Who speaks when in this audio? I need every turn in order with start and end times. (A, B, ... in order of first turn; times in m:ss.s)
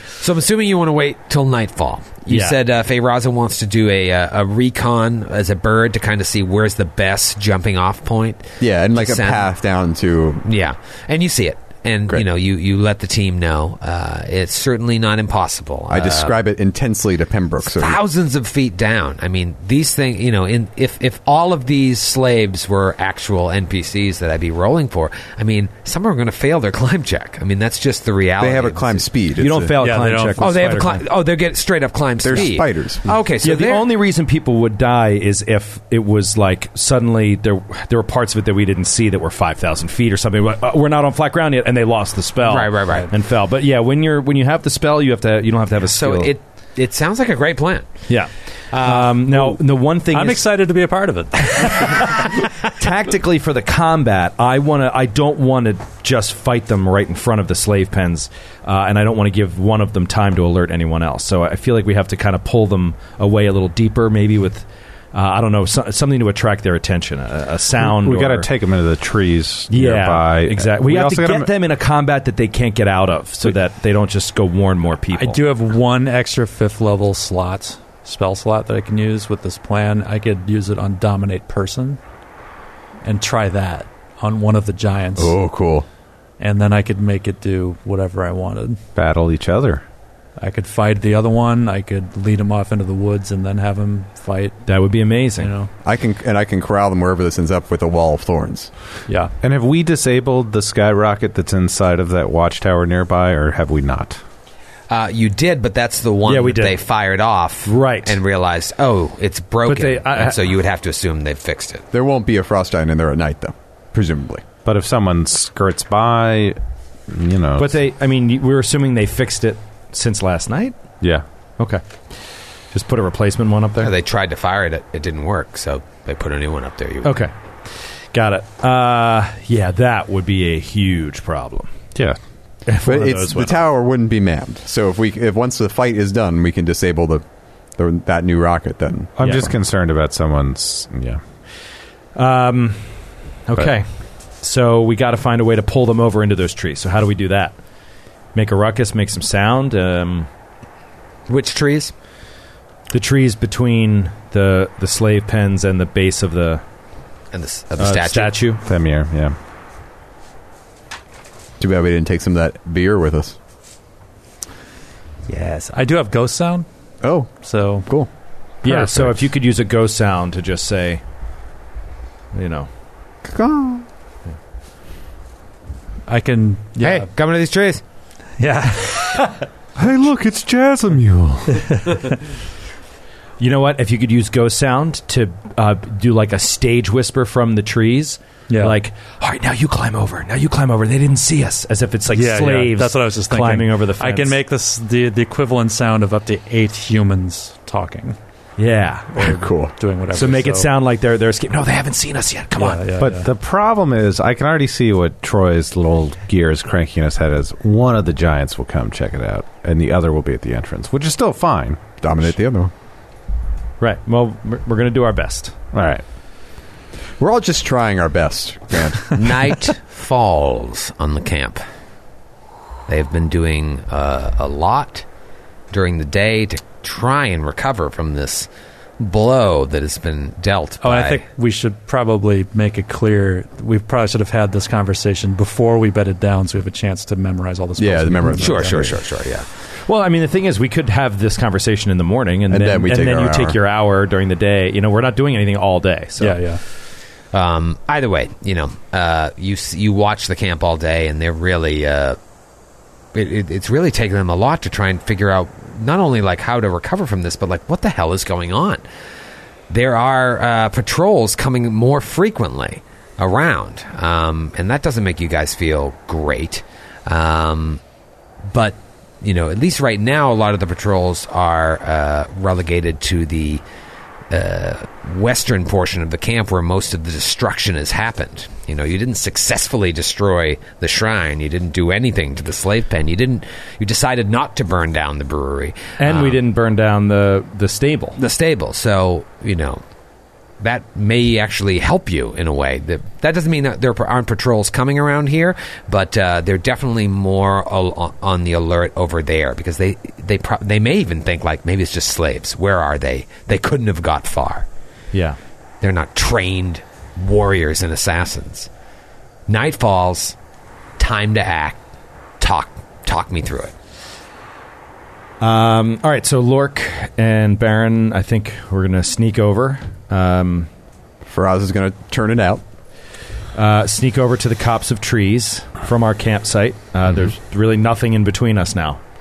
0:00.2-0:09.5 A
0:02.3-0:02.6 B
0:08.6-0:10.4 C
0:10.4-0:16.4 A
0:15.9-0:18.0 C
0:17.6-0:29.1 A
0:28.4-0:29.8 C
0:29.3-0:31.0 B
0:29.8-0:31.0 D
0:30.4-0:33.8 A
0:32.2-0:33.2 C
0:33.4-0:46.3 B
0:42.4-0:43.1 A
0:45.9-0:47.9 A
0:48.1-0:50.4 B
0:48.7-0:49.1 A
0:49.3-0:49.6 D
0:50.1-0:52.1 D
0:51.5-1:08.5 B
1:07.8-1:11.5 E
1:09.7-1:15.4 B
1:15.1-1:22.0 D
1:23.0-1:25.3 D
1:25.2-1:25.8 C
1:26.4-1:28.8 D
1:28.9-1:29.8 E
1:30.4-1:34.6 D
1:34.6-1:35.5 B
1:35.4-1:35.7 D
1:35.8-1:38.7 C
1:39.1-1:39.3 D
1:39.4-1:44.2 E
1:44.9-1:51.8 A
1:46.2-1:46.8 B
1:47.6-1:48.2 B
1:49.6-1:50.4 B
1:51.9-1:54.4 C
1:54.6-1:56.6 E
1:57.1-1:57.8 E
1:57.6-2:00.8 B
2:02.7-2:03.9 B
2:03.8-2:07.3 A
2:07.0-2:11.7 B
2:12.7-2:13.7 B
2:12.8-2:17.2 C
2:17.8-2:19.2 C
2:19.2-2:21.2 E
2:19.2-2:19.5 B
2:22.1-2:23.9 B
2:24.4-2:27.6 B
2:28.3-2:30.3 B
2:31.3-2:31.9 A
2:32.9-2:36.6 B
2:37.3-2:38.4 A
2:37.8-2:38.6 B
2:38.6-2:39.3 E
2:41.6-2:43.4 C
2:45.3-2:46.6 D
2:47.0-2:47.3 C
2:47.4-2:47.9 D
2:48.6-2:49.1 D
2:48.6-2:51.0 B
2:52.3-2:52.7 B
2:53.2-2:53.8 C
2:56.1-2:57.1 D
2:56.8-2:57.8 A
2:58.4-2:59.3 D
2:59.8-3:01.8 E
3:03.4-3:14.4 B
3:08.5-3:08.7 D
3:12.1-3:18.2 D
3:18.6-3:19.1 B
3:19.1-3:20.7 D
3:19.2-3:19.7 C
3:20.1-3:22.8 B
3:22.5-3:23.3 D
3:23.0-3:32.2 E
3:32.0-3:32.7 C
3:33.8-3:35.5 B
3:35.7-3:36.0 E
3:37.2-3:39.5 C
3:39.1-3:41.6 A
3:42.9-3:45.0 A
3:45.7-3:48.5 A
3:49.0-3:51.2 A
3:50.8-3:58.8 D
3:57.8-3:59.0 C
3:58.4-3:59.5 A
3:59.9-4:06.4 B
4:02.5-4:03.6 C
4:06.2-4:06.6 D
4:07.3-4:12.2 A
4:13.1-4:18.8 A
4:19.7-4:27.8 A
4:28.5-4:33.6 A
4:34.3-4:46.4 A
4:46.0-4:48.2 B
4:48.2-4:49.8 A
4:50.6-5:04.6 A
5:05.1-5:05.4 B
5:05.8-5:08.7 A
5:09.5-5:10.4 A
5:11.0-5:11.8 A
5:12.4-5:13.7 A
5:15.4-5:20.7 B
5:21.2-5:22.6 C
5:23.5-5:29.0 B